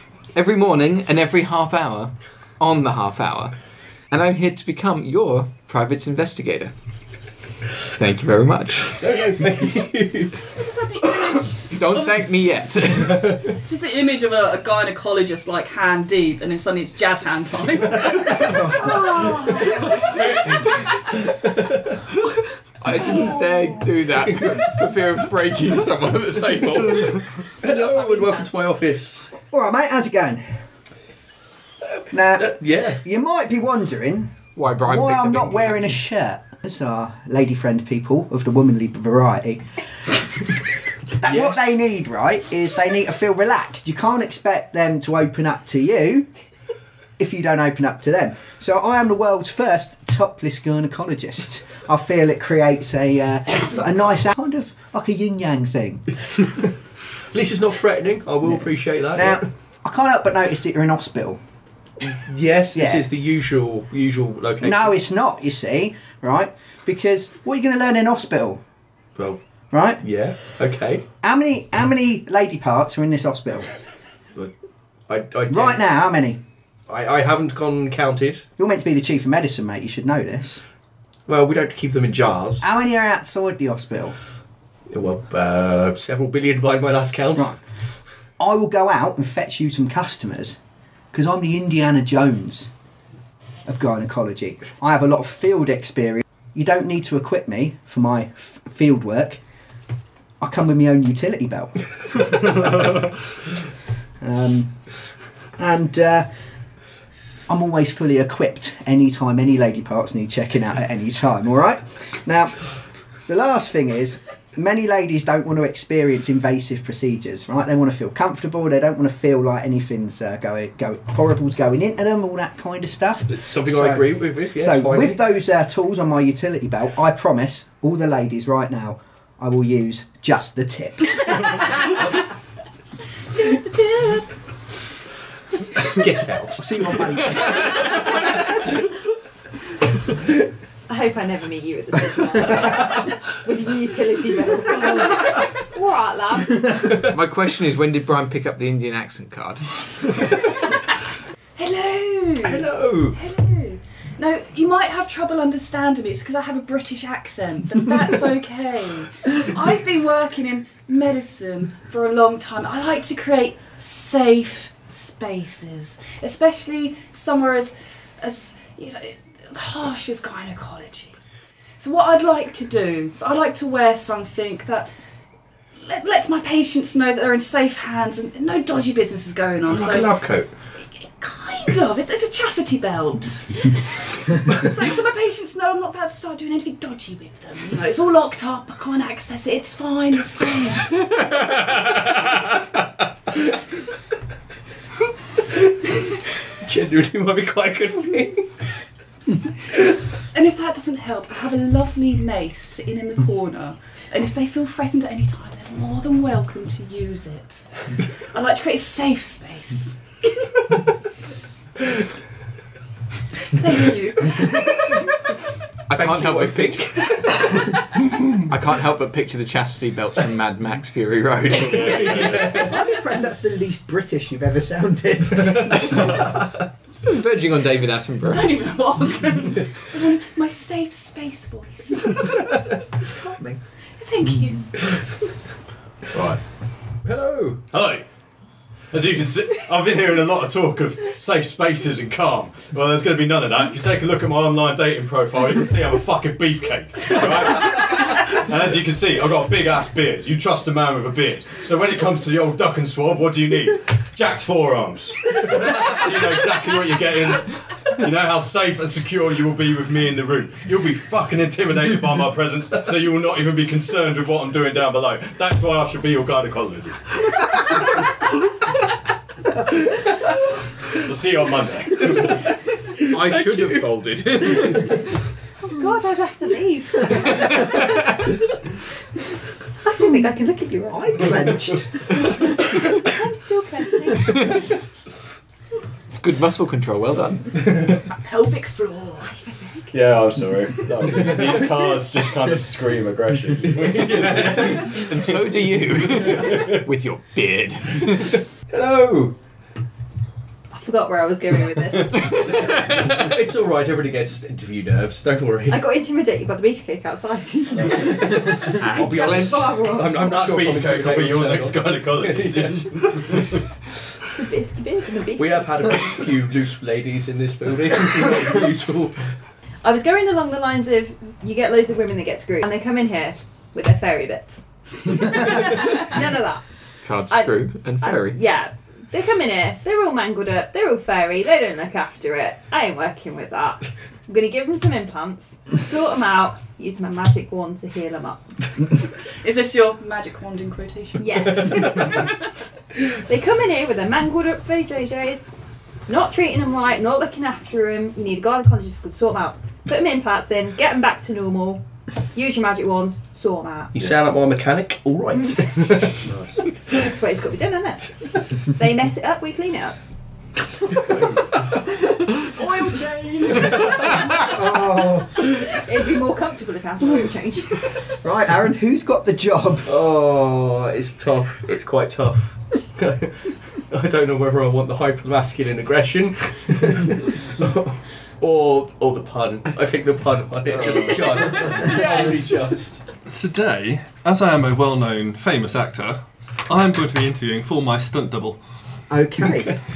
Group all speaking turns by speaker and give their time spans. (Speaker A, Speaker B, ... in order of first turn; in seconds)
Speaker A: 0.3-3.5, 4.1-6.7, 8.0-9.0, 11.7-13.4, 22.8-27.3, 34.6-36.0, 147.0-150.2, 215.9-217.0, 218.4-222.2, 227.1-228.5, 273.0-275.0, 277.5-278.1, 286.2-287.5, 294.9-298.4, 302.4-303.2, 308.7-309.9, 327.1-328.4
Speaker B: 8.9-10.4, 27.6-29.3, 32.4-33.0, 41.3-41.7, 57.3-59.5, 62.0-65.0, 70.0-71.0, 75.1-75.8, 76.9-78.5, 81.3-82.7, 84.9-87.5, 123.3-125.2, 135.8-136.9, 152.4-153.2, 179.7-180.5, 196.5-198.5, 215.9-217.5, 222.1-222.6, 237.0-237.6, 273.3-273.8, 294.0-294.7, 298.7-299.4, 302.8-305.9, 308.7-313.4, 315.4-319.3, 353.9-356.2, 369.9-383.0
Speaker C: 10.5-12.3, 13.6-19.1, 20.2-20.6, 133.3-134.3, 151.6-171.2, 171.8-174.9, 175.8-180.2, 181.0-191.0, 200.3-207.7, 208.3-210.6, 213.6-215.1, 228.3-232.6, 234.0-234.8, 288.1-289.6, 339.4-342.1, 362.4-364.5, 381.6-382.5
Speaker D: 18.8-20.1, 27.6-28.6, 140.9-147.0, 275.6-277.9, 279.8-281.5, 282.6-284.6, 300.7-302.6, 305.7-310.3, 314.3-316.1, 319.8-326.6, 327.3-338.9, 341.2-342.3, 342.9-345.5, 346.1-354.1, 356.7-360.0, 365.6-368.0
Speaker E: 20.1-20.5, 221.6-222.6, 236.1-236.4, 237.7-238.1, 238.9-267.1, 270.9-272.4, 289.9-295.4, 296.1-296.8, 307.8-308.1, 310.1-313.6, 356.2-356.6, 361.1-361.4
Speaker F: 29.5-30.6, 32.1-39.6, 41.2-46.3, 47.2-56.1, 59.1-61.4, 62.8-63.0, 64.6-68.6, 69.7-70.0, 71.2-73.7, 75.5-76.4, 78.6-80.6, 82.6-84.2, 88.4-90.6, 91.1-92.7, 93.7-99.4, 100.4-102.9, 104.2-104.8, 105.6-106.3, 107.5-112.7, 113.3-131.5, 136.6-138.2, 222.5-226.2, 280.9-282.4, 364.4-365.5, 368.2-369.9, 389.1-389.8
Speaker G: 383.3-388.6